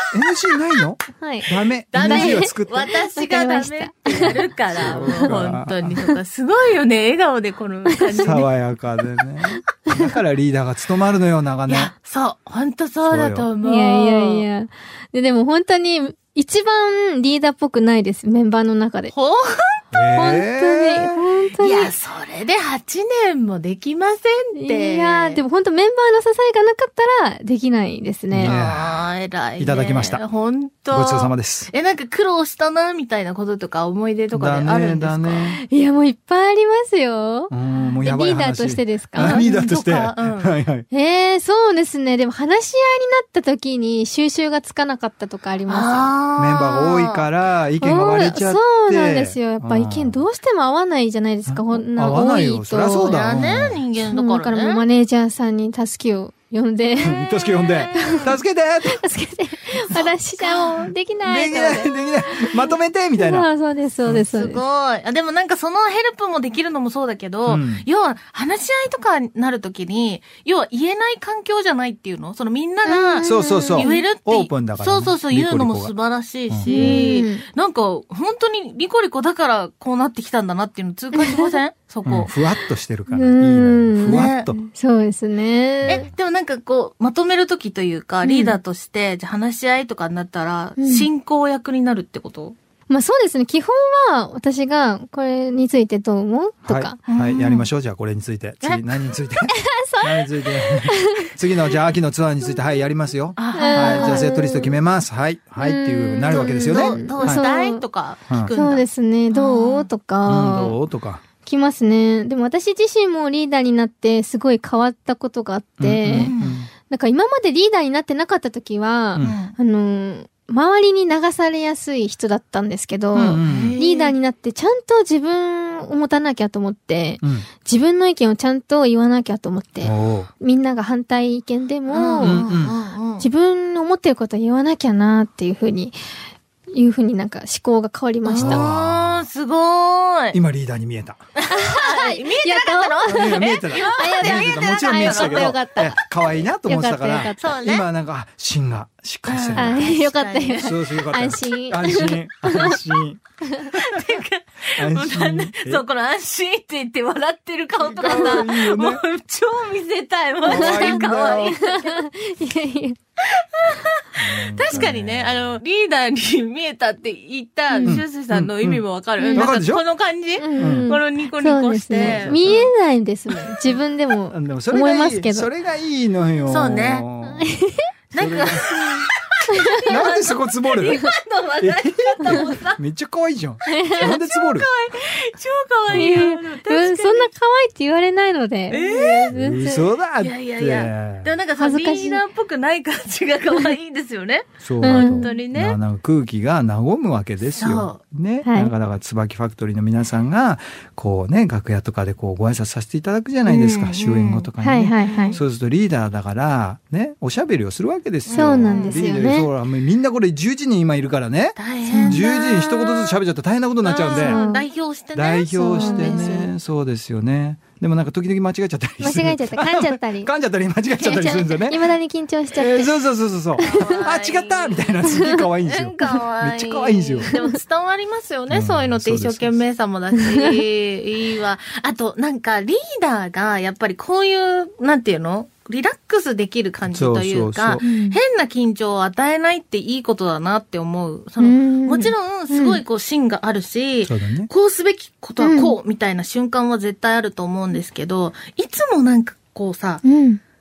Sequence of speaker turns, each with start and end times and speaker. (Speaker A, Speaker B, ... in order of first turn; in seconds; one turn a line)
Speaker A: 0.1-2.9
Speaker B: 0.5-0.8
Speaker C: 1.2-5.3
Speaker B: 1.9-8.5
Speaker A: 4.1-5.9
Speaker C: 7.9-8.3
Speaker A: 8.2-11.9
Speaker B: 11.7-14.4
Speaker A: 13.1-13.5
Speaker C: 13.6-19.1
Speaker B: 19.1-19.8
Speaker A: 19.9-21.2
Speaker C: 20.1-21.9
Speaker B: 21.6-25.4
Speaker C: 24.5-28.6
Speaker A: 28.3-29.0
Speaker B: 28.4-35.5
Speaker A: 29.6-30.2
Speaker A: 30.9-31.7
Speaker A: 34.3-35.6
Speaker C: 35.5-37.5
Speaker A: 37.5-40.9
Speaker C: 38.0-39.5
Speaker B: 39.1-40.5
Speaker C: 40.9-46.1
Speaker B: 45.7-47.3
Speaker A: 46.4-50.2
Speaker C: 47.8-53.2
Speaker A: 51.5-53.8
Speaker B: 53.0-54.8
Speaker C: 54.1-64.6
Speaker A: 57.0-59.0
Speaker B: 57.7-58.3
Speaker B: 59.9-60.9
Speaker A: 61.2-63.5
Speaker B: 64.1-82.3
Speaker A: 67.5-67.8
Speaker C: 72.8-74.0
Speaker A: 73.2-75.9
Speaker A: 76.5-77.0
Speaker C: 76.7-77.4
Speaker A: 82.0-84.6
Speaker C: 83.1-86.1
Speaker B: 84.0-84.5
Speaker B: 85.8-92.5
Speaker C: 88.2-88.6
Speaker C: 90.8-91.1
Speaker C: 92.9-97.0
Speaker A: 96.7-107.4
Speaker B: 97.1-97.7
Speaker B: 98.6-99.1
Speaker C: 99.5-101.3
Speaker B: 103.3-104.3
Speaker C: 103.5-104.8
Speaker C: 105.6-107.8
Speaker B: 106.3-109.9
Speaker C: 108.5-110.8
Speaker A: 110.2-111.2
Speaker C: 111.4-116.3
Speaker A: 115.8-116.7
Speaker B: 116.1-116.6
Speaker C: 116.9-132.5
Speaker B: 119.2-119.5
Speaker A: 123.1-123.8
Speaker B: 123.4-124.1
Speaker A: 127.2-127.5
Speaker A: 129.8-130.3
Speaker B: 131.9-133.3
Speaker A: 132.2-132.7
Speaker C: 133.2-136.0
Speaker C: 136.7-138.7
Speaker B: 138.2-140.4
Speaker A: 138.3-139.2
Speaker A: 140.3-141.2
Speaker B: 141.4-146.1
Speaker C: 141.5-147.6
Speaker A: 143.1-149.8
Speaker B: 147.4-147.9
Speaker B: 149.2-150.9
Speaker C: 149.5-152.8
Speaker A: 150.6-153.2
Speaker B: 153.7-162.0
Speaker A: 154.8-155.8
Speaker A: 157.8-159.0
Speaker C: 158.0-158.4
Speaker A: 160.4-161.6
Speaker C: 160.4-163.0
Speaker A: 164.2-165.6
Speaker B: 164.6-172.7
Speaker C: 167.7-168.0
Speaker A: 167.8-169.8
Speaker C: 169.2-169.5
Speaker C: 170.4-175.5
Speaker A: 170.6-170.9
Speaker A: 172.0-172.5
Speaker B: 173.3-173.8
Speaker A: 174.3-177.5
Speaker B: 176.4-177.1
Speaker C: 177.2-177.9
Speaker B: 178.1-182.8
Speaker A: 178.1-178.6
Speaker C: 178.7-179.0
Speaker C: 179.5-179.9
Speaker A: 179.9-181.1
Speaker A: 181.6-184.7
Speaker B: 183.6-187.3
Speaker C: 183.7-184.1
Speaker A: 185.9-186.2
Speaker C: 185.9-189.9
Speaker B: 188.7-189.3
Speaker A: 189.3-191.3
Speaker B: 190.2-195.8
Speaker C: 191.6-192.2
Speaker A: 194.6-214.4
Speaker C: 194.8-195.3
Speaker B: 197.4-198.0
Speaker C: 198.4-198.7
Speaker B: 203.4-205.4
Speaker C: 204.6-205.4
Speaker B: 208.2-209.2
Speaker C: 208.3-209.5
Speaker B: 211.6-213.2
Speaker C: 211.9-212.2
Speaker B: 213.8-216.5
Speaker C: 214.1-214.7
Speaker A: 215.1-221.8
Speaker C: 215.5-216.5
Speaker C: 219.0-220.3
Speaker C: 221.0-223.1
Speaker A: 222.5-227.3
Speaker C: 223.6-223.9
Speaker B: 223.6-250.0
Speaker C: 225.1-225.4
Speaker A: 228.5-229.6
Speaker C: 230.1-230.6
Speaker A: 236.9-237.9
Speaker C: 237.8-238.2
Speaker C: 241.4-242.8
Speaker A: 244.0-244.5
Speaker C: 245.4-245.7
Speaker C: 250.0-250.4